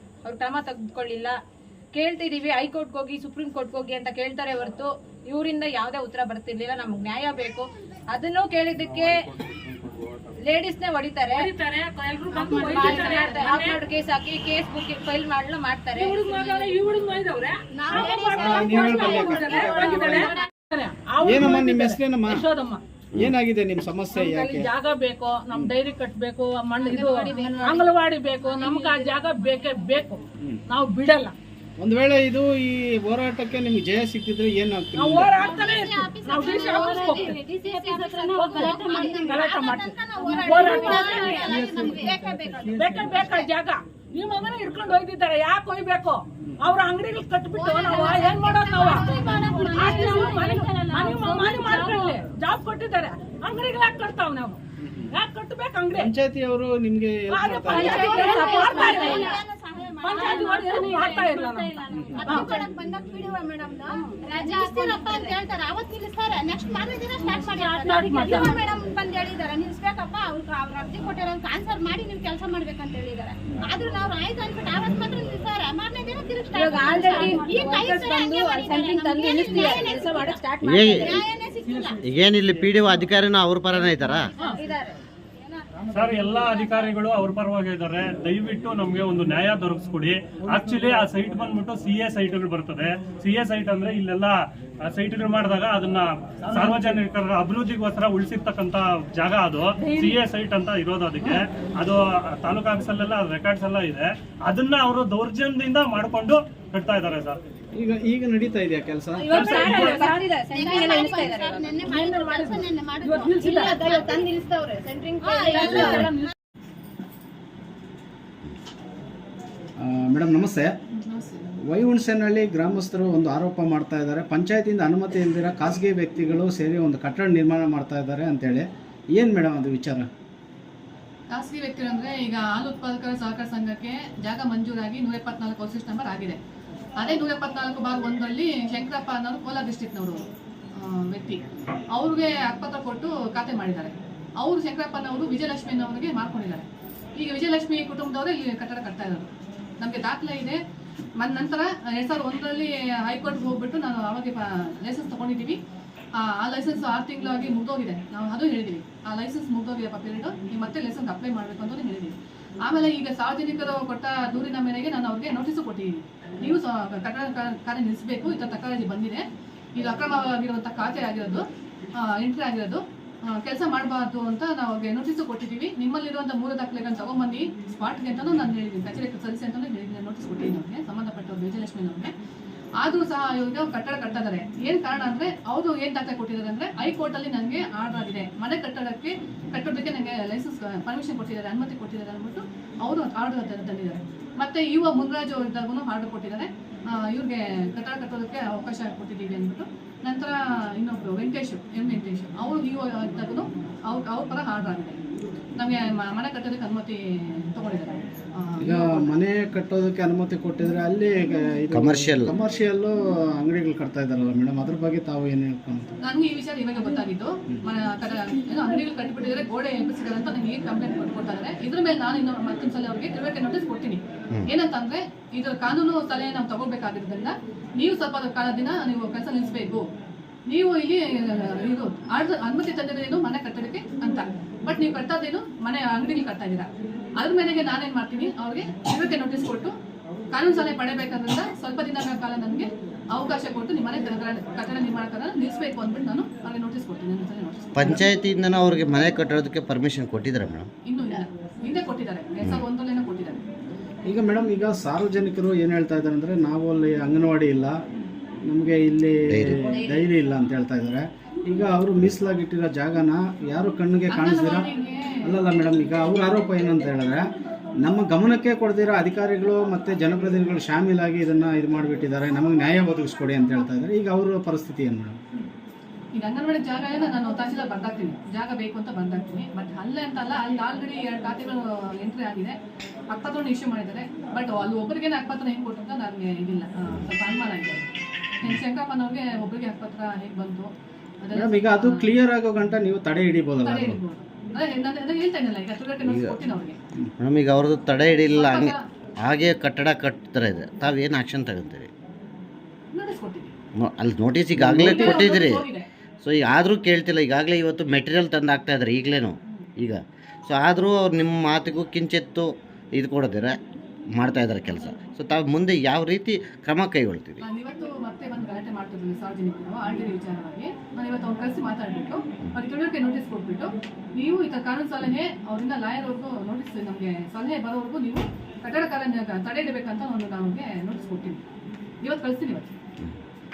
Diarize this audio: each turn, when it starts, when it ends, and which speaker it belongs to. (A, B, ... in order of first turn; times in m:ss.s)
0:00.2-0:01.3 A
0:01.9-0:09.2 A
0:08.8-0:10.3 B
0:10.5-0:11.5 A
0:11.3-0:13.8 C
0:12.3-0:16.8 A
0:12.3-0:13.3 D
0:15.9-0:22.8 C
0:17.7-0:20.5 D
0:18.0-0:20.3 E
0:21.2-0:22.4 E
0:23.1-0:24.7 E
0:24.1-0:31.3 C
0:26.8-0:27.9 A
0:27.3-0:27.5 D
0:28.4-0:29.8 A
0:31.8-0:35.4 E
0:35.0-0:37.4 C
0:35.2-0:43.5 D
0:36.9-0:39.2 A
0:38.3-0:41.7 C
0:40.5-0:41.0 A
0:41.6-0:42.9 E
0:42.7-0:54.6 C
0:47.5-0:51.1 D
0:51.6-0:52.0 A
0:54.8-0:55.1 E
0:55.1-0:56.1 C
0:55.9-0:58.1 E
0:57.3-0:59.4 C
0:57.7-1:22.0 D
1:00.0-1:02.5 C
1:01.9-1:02.3 E
1:07.2-1:08.6 C
1:16.5-1:21.1 A
1:20.6-1:21.2 F
1:22.0-1:24.3 F
1:24.4-1:25.0 A
1:25.9-1:34.3 B
1:34.8-1:47.4 B
1:47.8-1:49.6 E
1:49.2-1:51.7 A
1:49.3-1:50.0 B
1:49.3-1:50.3 C
1:50.5-1:56.3 D
1:51.8-1:54.2 C
1:55.2-1:56.2 C
1:55.7-1:56.1 F
1:59.8-2:00.7 E
2:01.0-2:01.6 G
2:01.7-2:10.1 E
2:11.3-2:16.4 G
2:17.0-2:20.2 G
2:20.7-2:26.6 G
2:27.2-2:29.3 G
2:29.8-2:30.6 G
2:31.2-2:35.6 G
2:36.1-2:49.2 G
2:49.8-2:51.4 G
2:52.0-3:02.1 G
3:02.8-3:25.0 G
3:25.6-3:29.2 G
3:28.6-3:35.9 E
3:31.7-3:32.3 F
3:36.0-3:49.8 G
3:50.5-3:59.7 G
4:00.3-4:08.0 G
4:07.7-4:10.7 F
4:10.8-4:13.4 G
4:14.0-4:17.8 E
4:18.4-4:24.7 E
4:19.3-4:19.7 F
4:24.1-4:25.3 G
4:25.2-4:27.3 E
4:27.8-4:35.2 E
4:36.1-4:42.6 G
4:43.1-4:47.8 G
4:48.4-4:50.7 G
4:51.2-4:52.1 G
4:51.3-4:54.0 E
4:53.6-4:56.8 G
4:56.0-4:56.3 F
4:57.2-5:01.9 F
4:58.3-4:58.8 G
5:02.9-5:03.5 G
5:03.8-5:05.6 F
5:04.6-5:05.2 E
5:04.8-5:05.8 G
5:06.2-5:13.6 F
5:14.1-5:17.4 F
5:17.4-5:31.4 G
5:32.0-5:32.7 G